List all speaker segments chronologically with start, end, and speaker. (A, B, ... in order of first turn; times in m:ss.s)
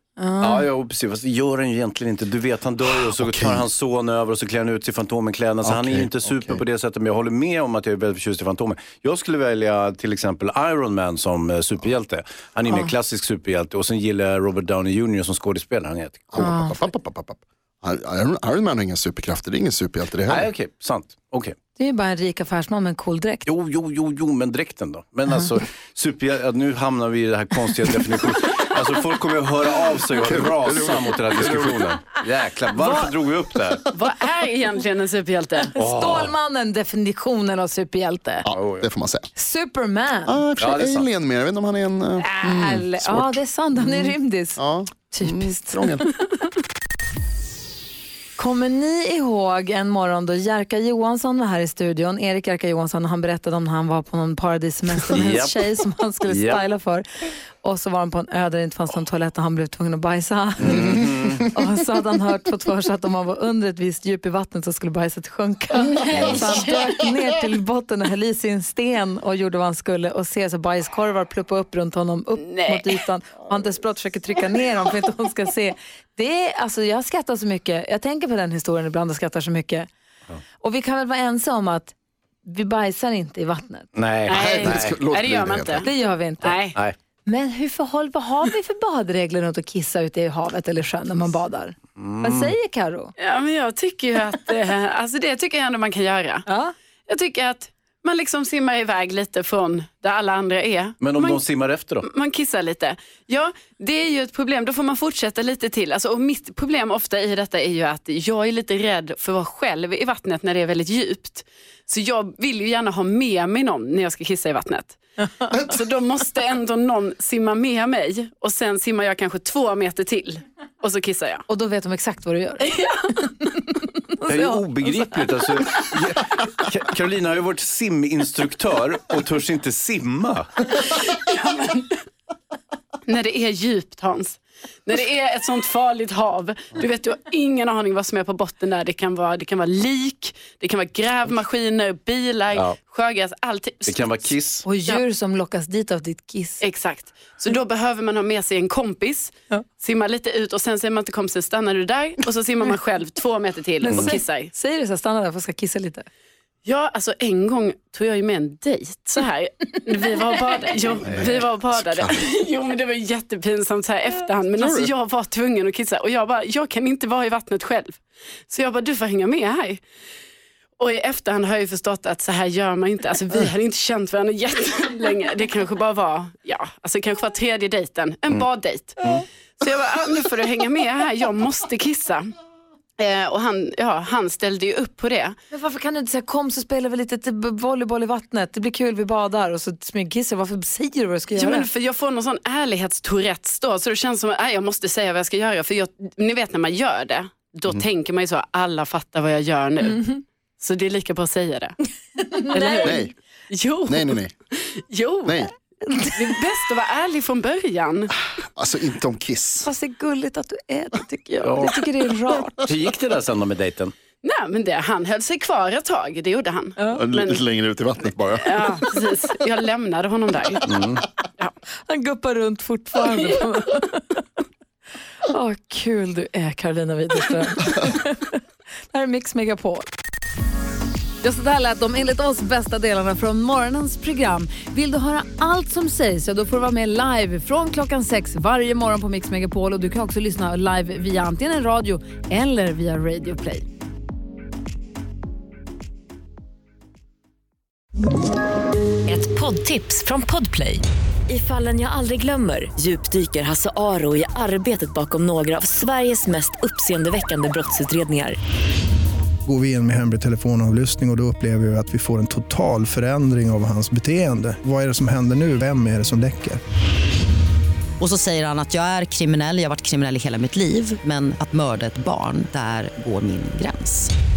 0:00.2-0:00.7 A
0:00.4-0:16.5 B
0:03.0-0:03.7 C
0:05.6-0:06.6 C
0:16.3-0:20.5 C
0:16.4-0:16.8 A
0:20.3-0:21.5 B
0:21.8-0:23.5 A
0:23.4-0:33.9 B
0:30.2-0:31.9 C
0:32.8-0:33.1 D
0:33.9-0:35.7 D
0:35.7-0:38.5 A
0:35.8-0:36.3 B
0:38.4-0:39.3 C
0:38.5-0:38.8 B
0:39.3-0:40.4 A
0:40.3-0:46.1 C
0:40.6-0:41.1 B
0:42.2-0:46.1 A
0:48.4-0:57.0 A
0:55.1-0:55.7 B
0:56.2-0:56.6 B
0:57.6-1:19.9 A
1:00.6-1:01.4 B
1:05.8-1:06.6 D
1:12.4-1:12.9 D
1:20.6-1:23.9 A
1:24.0-1:25.0 B
1:24.3-1:25.9 D
1:24.3-1:25.8 C
1:25.8-1:26.6 A
1:26.4-1:26.8 D
1:27.2-1:33.1 A
1:32.0-1:32.5 B
1:33.2-1:36.4 D
1:36.4-1:36.7 A
1:37.1-1:41.4 D
1:41.0-1:42.1 B
1:42.0-2:01.4 D
2:01.5-2:02.8 A
2:02.7-2:03.3 D
2:03.4-2:05.0 A
2:04.2-2:10.6 B
2:10.8-2:12.0 D
2:13.0-2:24.3 D
2:23.8-2:24.6 B
2:24.6-2:26.6 A
2:26.6-2:34.5 D
2:33.8-2:36.1 A
2:36.6-2:49.8 D
2:41.1-2:42.3 C
2:44.6-2:44.8 C
2:50.8-3:02.3 D
3:03.0-3:05.4 D
3:05.5-3:11.7 A
3:11.3-3:21.7 D
3:22.2-3:23.1 A
3:22.5-3:25.4 D
3:22.8-3:23.1 C
3:23.8-3:24.3 C
3:25.2-3:25.5 C
3:25.8-3:26.2 A
3:26.2-3:28.2 D
3:28.6-3:29.7 C
3:29.6-3:32.7 A
3:31.4-3:31.8 B
3:32.6-3:33.9 B
3:34.2-3:37.4 D
3:36.9-3:38.8 C
3:38.4-3:40.7 D
3:40.6-3:41.0 B
3:41.9-3:44.2 A
3:45.2-3:49.9 A
3:51.2-4:03.6 A
4:09.1-4:10.8 E
4:11.3-4:18.4 E
4:19.4-4:26.6 F
4:28.0-4:34.1 G